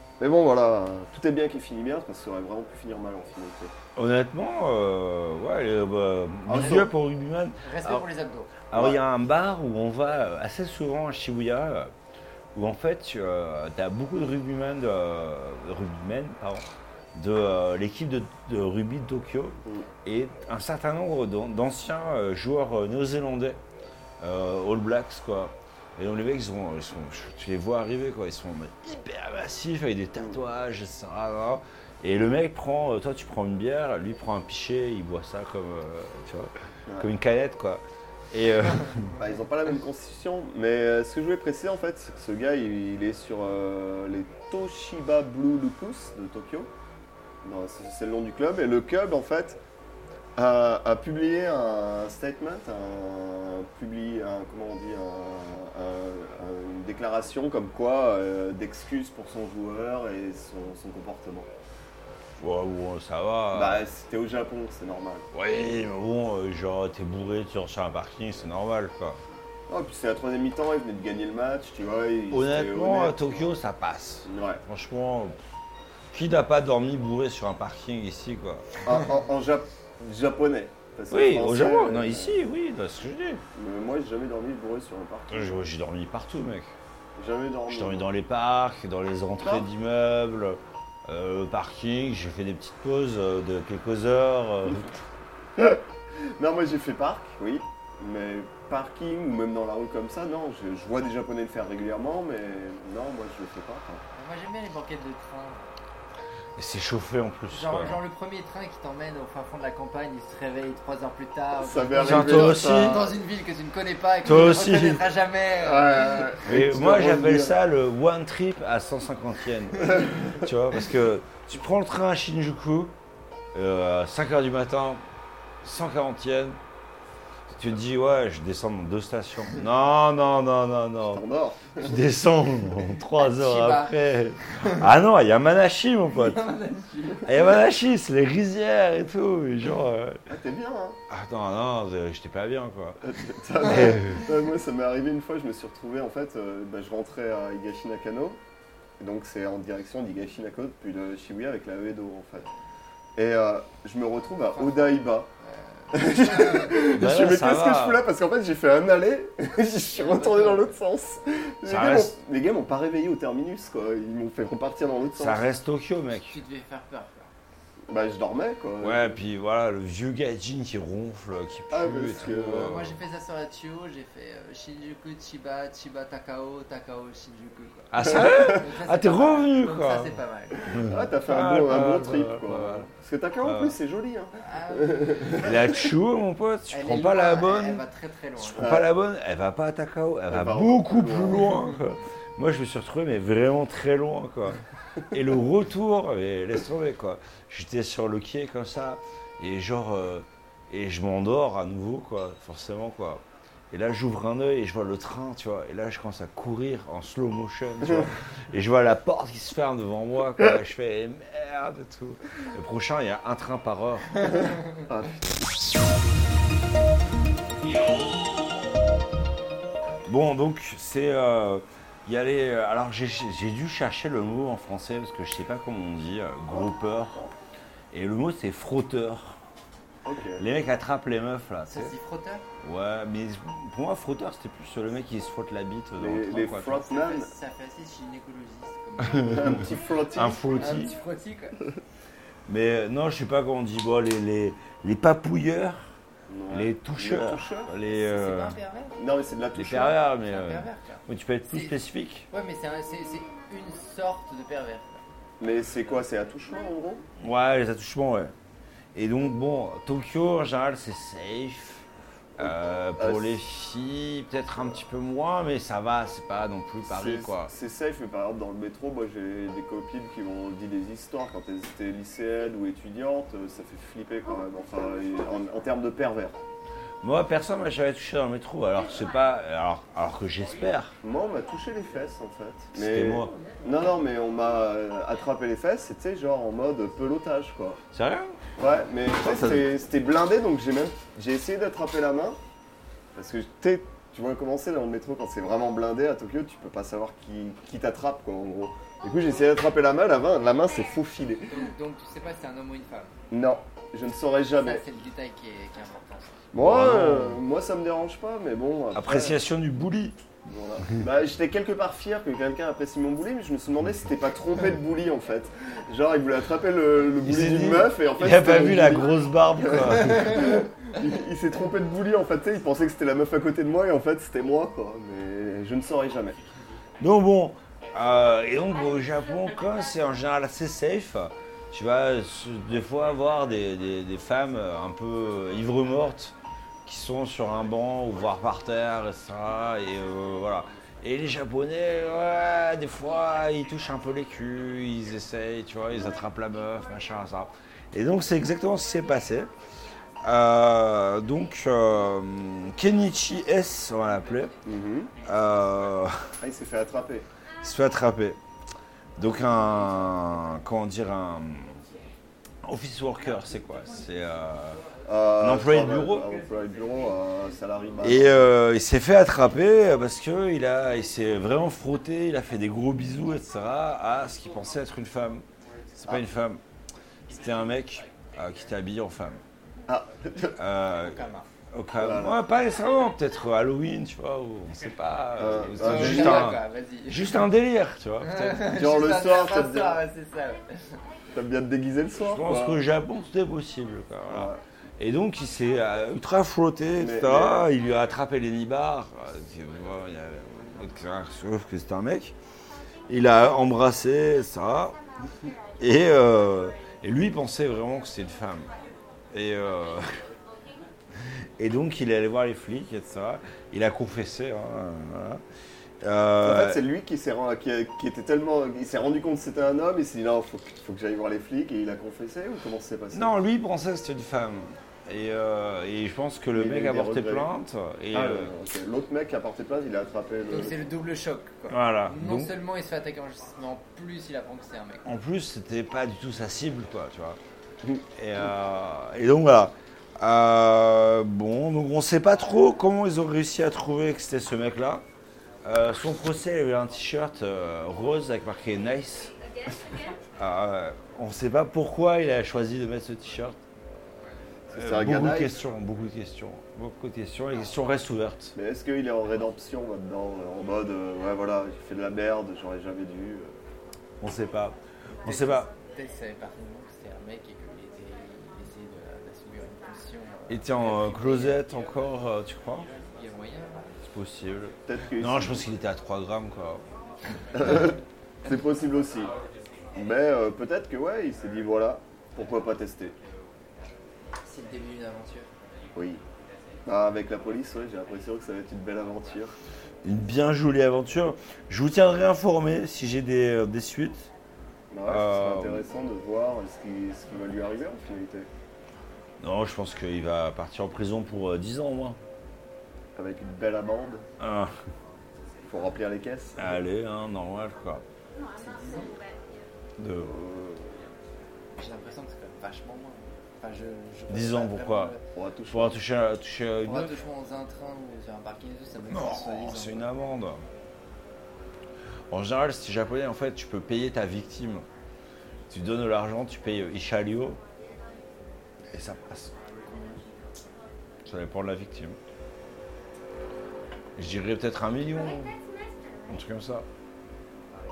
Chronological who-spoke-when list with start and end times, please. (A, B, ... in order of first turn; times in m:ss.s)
0:00.2-0:03.7 A
0:04.0-0:08.0 B
0:06.5-0:06.9 A
0:07.6-0:08.5 C
0:08.7-0:11.9 B
0:08.7-0:09.0 A
0:12.5-0:23.6 B
0:24.2-0:39.1 B
0:39.2-0:46.7 A
0:47.4-0:49.6 A
0:50.4-1:01.5 A
1:02.4-1:03.8 B
1:03.5-1:05.3 A
1:05.3-1:09.2 B
1:09.7-1:13.5 A
1:12.3-1:15.4 B
1:14.2-1:14.6 A
1:16.1-1:18.7 B
1:18.8-1:22.4 A
1:21.1-1:23.4 B
1:23.6-1:25.6 A
1:25.3-1:26.7 B
1:27.2-1:28.1 A
1:27.7-1:35.0 B
1:29.4-1:29.7 A
1:36.4-1:44.0 A
1:44.1-1:45.7 C
1:46.6-1:48.0 B
1:47.5-1:56.4 C
1:51.6-1:53.2 A
1:52.0-1:53.0 B
1:54.2-1:55.0 B
1:55.6-1:57.6 A
1:56.4-2:02.9 B
1:59.9-2:00.2 A
2:03.5-2:05.0 B
2:05.6-2:06.6 B
2:07.5-2:11.2 B
2:11.0-2:12.0 A
2:11.8-2:16.4 B
2:13.2-2:14.9 C
2:16.1-2:17.5 C
2:17.2-2:20.2 B
2:20.3-2:21.0 A
2:21.1-2:23.0 B
2:23.0-2:28.4 A
2:23.6-2:24.2 B
2:29.0-2:32.5 A
2:33.2-2:35.3 A
2:34.5-2:36.8 C
2:35.9-2:45.4 A
2:36.9-2:38.0 B
2:39.9-2:40.7 C
2:41.7-2:42.2 B
2:45.2-2:46.4 B
2:46.3-2:47.3 C
2:47.9-2:49.2 A
2:48.8-2:53.0 B
2:51.7-2:52.8 A
2:52.2-3:00.6 C
2:57.9-3:00.2 B
2:58.0-2:58.6 A
3:00.7-3:02.9 B
3:00.8-3:05.6 A
3:03.4-3:03.8 B
3:04.4-3:05.5 C
3:05.4-3:07.8 B
3:06.7-3:08.7 C
3:08.4-3:34.2 B
3:08.6-3:08.9 A
3:10.3-3:11.5 A
3:34.9-3:35.2 A
3:40.1-3:47.2 B
3:47.9-3:49.4 B
3:50.0-3:50.4 A
3:50.4-3:51.9 B
3:51.7-3:52.5 C
3:52.6-3:56.8 B
3:56.0-3:57.3 A
3:56.7-3:59.8 C
3:59.0-4:00.9 B
3:59.2-4:00.8 A
4:00.6-4:01.6 C
4:02.5-4:06.0 B
4:06.3-4:07.7 A
4:06.5-4:08.6 B
4:07.9-4:09.0 C
4:09.0-4:10.0 A
4:09.6-4:12.3 B
4:10.2-4:11.8 C
4:12.3-4:15.0 C
4:15.4-4:17.0 A
4:17.2-4:18.3 B
4:19.0-4:21.8 B
4:22.4-4:23.4 A
4:22.4-4:27.5 B
4:26.8-4:36.4 A
4:37.0-4:41.0 B
4:41.0-4:47.8 A
4:42.8-4:43.3 B
4:47.9-4:48.4 B
4:48.6-4:52.4 A
4:49.2-4:49.7 B
4:53.2-5:01.6 A
5:01.5-5:03.2 C
5:03.3-5:04.8 A
5:04.6-5:06.4 C
5:06.5-5:09.4 A
5:06.6-5:07.4 B
5:08.9-5:10.2 B
5:10.5-5:26.4 A
5:17.2-5:20.4 B
5:27.0-5:36.4 B
5:36.9-5:49.5 B
5:50.2-5:54.5 B
5:54.6-5:55.1 A
5:55.2-5:56.2 B
5:56.4-5:57.3 A
5:57.6-5:58.4 B
5:59.2-6:01.8 B
6:02.6-6:04.8 B
6:05.0-6:08.5 A
6:05.4-6:06.3 B
6:08.0-6:15.4 B
6:16.0-6:16.6 B
6:17.3-6:19.4 B
6:19.9-6:20.6 A
6:20.6-6:21.2 B
6:21.0-6:21.5 C
6:21.7-6:28.7 B
6:22.0-6:22.4 A
6:25.4-6:26.5 A
6:25.8-6:27.4 C
6:28.2-6:31.0 C
6:28.7-6:30.0 A
6:31.3-6:32.8 A
6:32.2-6:42.4 B
6:34.3-6:34.6 A
6:37.0-6:37.7 A
6:43.1-6:45.0 B
6:45.8-6:48.7 B
6:49.3-6:50.1 B
6:51.6-6:55.4 B
6:56.0-6:56.8 B
6:56.4-7:03.4 A
7:03.1-7:08.5 B
7:06.5-7:07.5 A
7:08.1-7:10.9 A
7:10.5-7:15.0 C
7:11.7-7:12.5 B
7:15.0-7:17.4 B
7:18.2-7:25.0 B
7:25.6-7:29.3 B
7:30.4-7:33.6 B
7:34.7-7:35.6 A
7:34.7-7:38.6 B
7:38.6-7:43.6 A
7:44.2-7:45.7 B
7:45.2-7:51.6 C
7:50.5-7:52.9 B
7:53.0-7:53.9 C
7:54.0-7:56.8 B
7:54.9-7:55.7 A
7:57.6-7:59.3 A
8:00.0-8:03.2 A
8:04.4-8:05.5 C
8:06.0-8:06.2 A
8:06.9-8:09.6 A
8:10.0-8:14.3 B
8:14.9-8:18.5 A
8:15.1-8:15.8 B
8:19.4-8:22.2 B
8:23.2-8:24.2 A
8:24.4-8:24.7 B
8:25.7-8:26.8 A
8:26.6-8:28.0 B
8:28.6-8:29.2 C
8:30.0-8:30.3 B
8:30.2-8:31.0 A
8:31.8-8:35.2 C
8:34.3-8:35.1 B
8:35.4-8:36.0 A
8:35.7-8:37.1 B
8:36.8-8:40.1 C
8:39.1-8:40.6 B
8:42.3-8:44.8 B
8:45.7-8:47.6 B
8:48.9-8:49.5 B
8:51.2-8:52.2 B
8:54.2-8:55.5 B
8:56.3-8:56.9 B